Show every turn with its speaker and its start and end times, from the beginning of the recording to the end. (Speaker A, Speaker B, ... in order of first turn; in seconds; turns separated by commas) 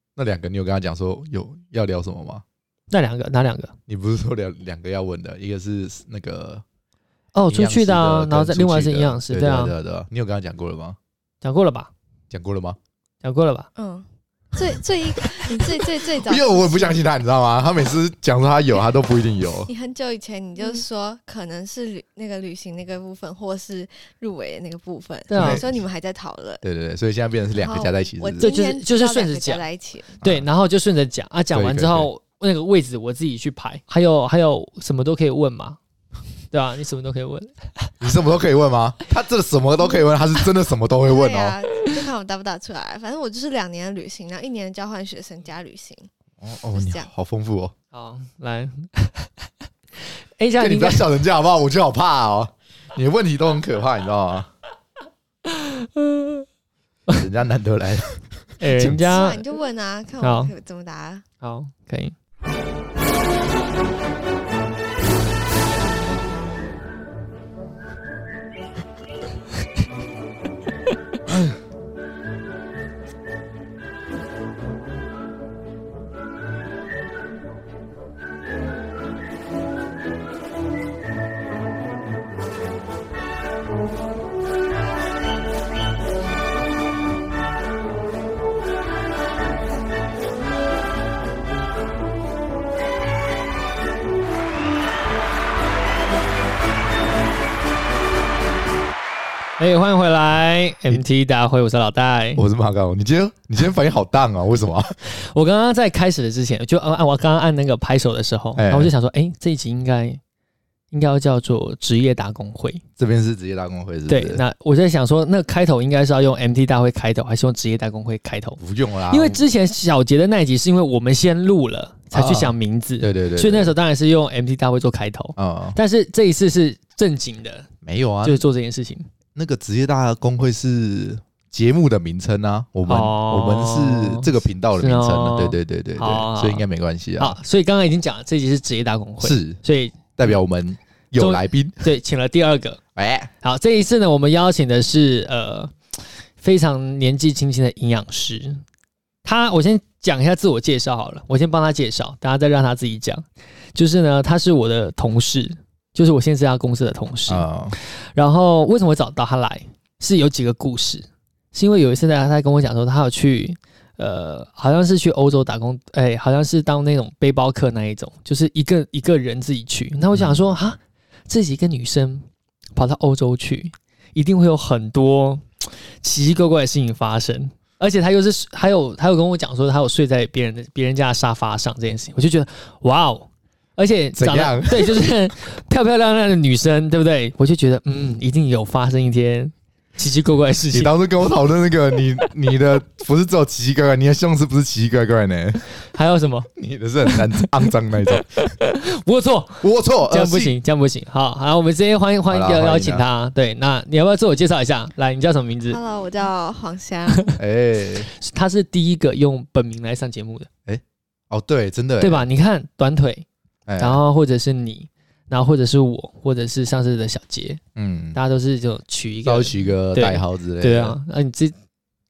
Speaker A: 0.1-2.4, Speaker B: 2.9-3.7, Speaker A: 3.9-6.6, Speaker B: 7.3-9.7, Speaker A: 7.5-11.0, Speaker B: 11.4-11.9, Speaker A: 12.3-12.8, Speaker B: 13.2-13.7, Speaker C: 13.8-17.0, Speaker A: 16.2-19.7, Speaker C: 19.7-26.6, Speaker B: 25.3-25.6, Speaker A: 25.3-25.6, Speaker A: 26.6-28.5, Speaker C: 27.5-30.2, Speaker B: 28.4-29.6, Speaker B: 30.2-35.8, Speaker A: 31.5-32.1, Speaker B: 36.5-37.9, Speaker A: 38.0-41.5, Speaker C: 41.0-46.1, Speaker A: 46.4-47.7, Speaker C: 46.7-47.1, Speaker B: 47.9-49.3, Speaker B: 50.4-51.1, Speaker A: 50.6-54.5, Speaker B: 55.5-56.5, Speaker A: 57.1-59.0, Speaker B: 58.6-59.4, Speaker C: 59.0-61.2, Speaker B: 60.2-60.5, Speaker B: 61.4-62.1, Speaker B: 99.6-102.4, Speaker A: 102.4-105.0, Speaker B: 105.1-110.2, Speaker A: 108.5-108.9, Speaker B: 110.9-112.8, Speaker A: 113.0-114.4, Speaker B: 114.1-127.7, Speaker A: 118.6-119.4, Speaker A: 122.1-123.7, Speaker A: 125.4-125.8, Speaker A: 127.8-128.4, Speaker B: 128.2-129.1, Speaker A: 129.3-137.3, Speaker B: 132.9-136.6, Speaker B: 137.2-140.4, Speaker A: 139.2-139.6, Speaker A: 140.1-141.8, Speaker B: 141.2-142.8, Speaker A: 142.9-143.3, Speaker B: 143.4-148.6, Speaker B: 149.2-153.2, Speaker B: 153.7-190.9, Speaker A: 157.3-157.7, Speaker A: 170.1-170.4, Speaker A: 184.2-185.0, Speaker A: 190.7-195.6, Speaker B: 195.9-196.5, Speaker A: 196.5-198.5, Speaker B: 198.4-205.8, Speaker A: 199.6-200.5, Speaker A: 202.3-203.0, Speaker C: 205.7-207.3, Speaker A: 207.4-208.1, Speaker B: 208.2-210.5, Speaker A: 210.7-212.2, Speaker B: 212.0-213.2, Speaker A: 213.7-214.0, Speaker B: 213.8-217.6, Speaker A: 217.8-218.2, Speaker B: 218.1-221.5, Speaker A: 219.2-221.0